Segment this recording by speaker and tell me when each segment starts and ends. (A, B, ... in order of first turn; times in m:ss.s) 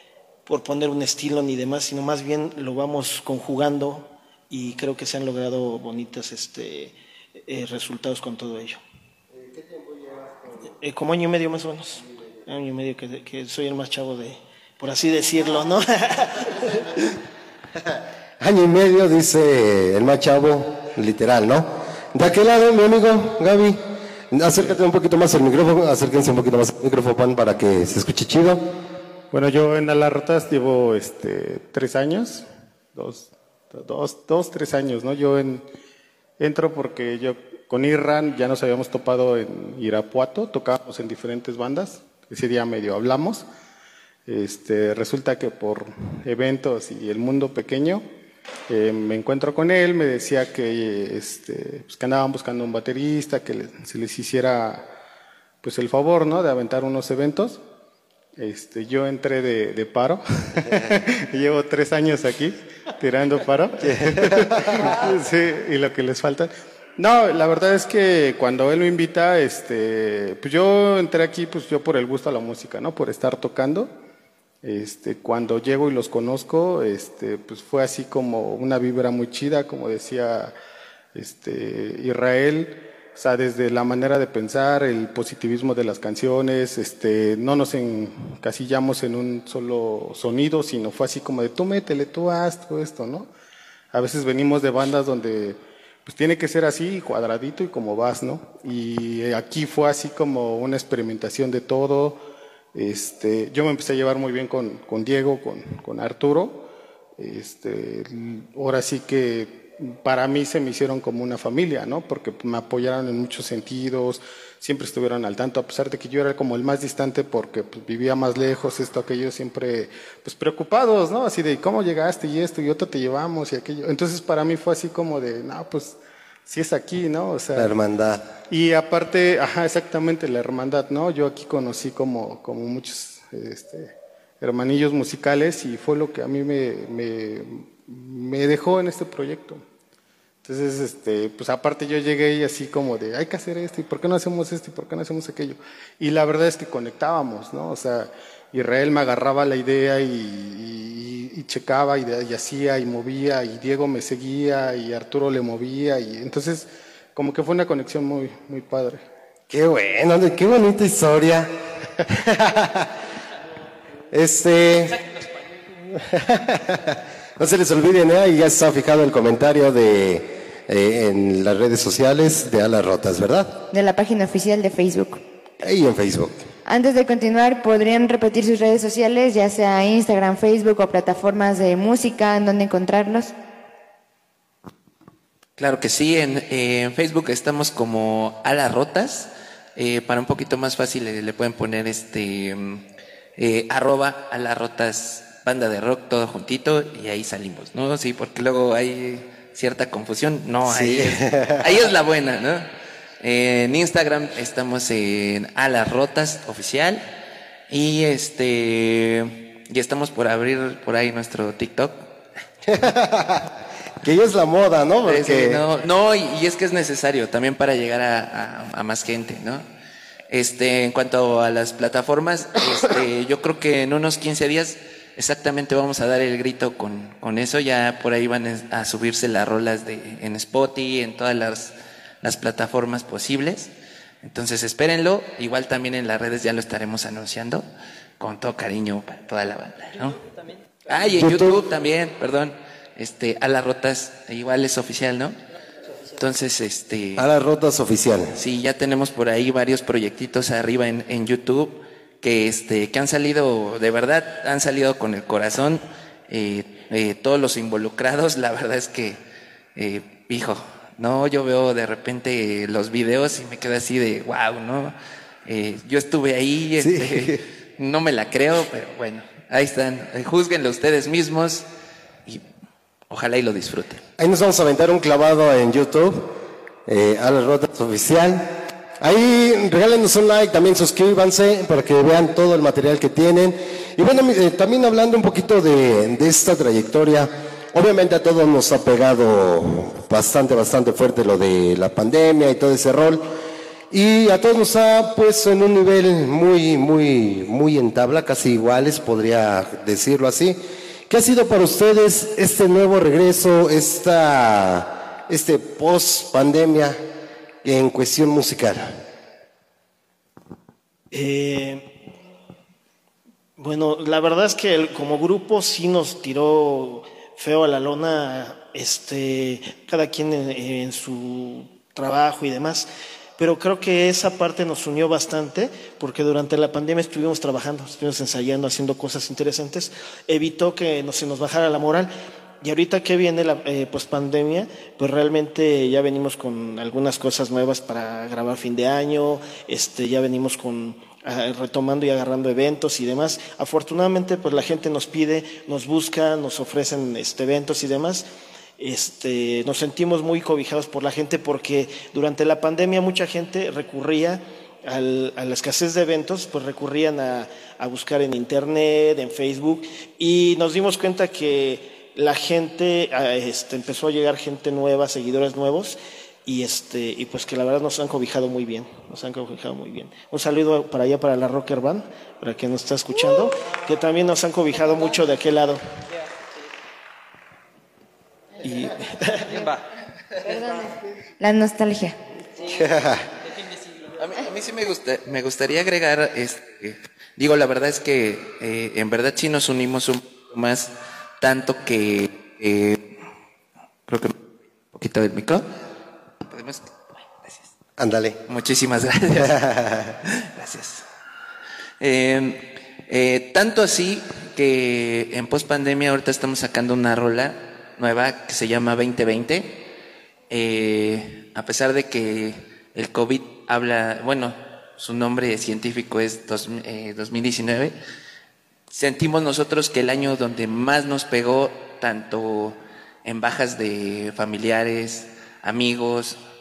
0:00.5-0:08.8 A
0:10.8-0:17.1 A
0:18.4-0:23.8 B
0:24.3-0:28.7 B
0:29.3-0:35.7 C
0:36.4-0:43.5 C
0:44.3-0:48.0 C
0:48.7-0:54.9 C
0:55.6-0:57.6 C
0:58.4-1:13.9 C
1:14.6-1:20.6 C
1:21.1-1:33.3 C
1:33.9-1:42.2 C
1:42.7-2:07.7 C
2:07.6-2:08.3 B
2:08.5-2:19.6 C
2:20.4-2:39.0 C
2:39.5-2:42.9 B
2:44.1-2:45.0 B
2:46.0-2:53.6 B
2:53.7-2:55.2 D
2:55.6-2:56.4 B
2:56.7-3:03.3 D
3:05.6-3:12.9 E
3:13.4-3:22.7 E
3:20.7-3:21.7 B
3:23.2-3:27.0 E
3:27.7-3:32.0 E
3:32.7-3:33.5 B
3:34.0-3:35.6 B
3:35.1-3:39.6 E
3:40.3-3:53.7 E
3:54.2-3:57.6 E
3:58.2-4:00.2 E
4:00.9-4:05.4 E
4:01.1-4:01.6 B
4:06.1-4:07.2 E
4:07.2-4:08.4 B
4:08.4-4:19.2 E
4:19.8-4:25.0 E
4:25.5-4:31.7 E
4:26.8-4:27.4 B
4:33.1-4:34.0 E
4:34.2-4:36.4 B
4:36.9-4:53.2 B
4:53.9-5:07.0 B
5:07.6-5:09.0 B
5:11.1-5:11.9 A
5:13.6-5:32.1 A
5:32.6-5:48.3 A
5:48.8-6:15.8 A
6:18.6-6:19.5 A
6:20.4-6:22.2 D
6:22.7-6:23.2 B
6:24.2-6:33.1 E
6:34.1-6:34.4 E
6:34.9-6:35.7 E
6:36.5-6:37.7 E
6:38.0-6:38.4 B
6:38.5-6:39.6 E
6:39.4-6:40.1 B
6:40.3-6:41.1 E
6:42.0-6:49.8 E
6:50.5-6:58.0 E
6:58.9-7:06.4 E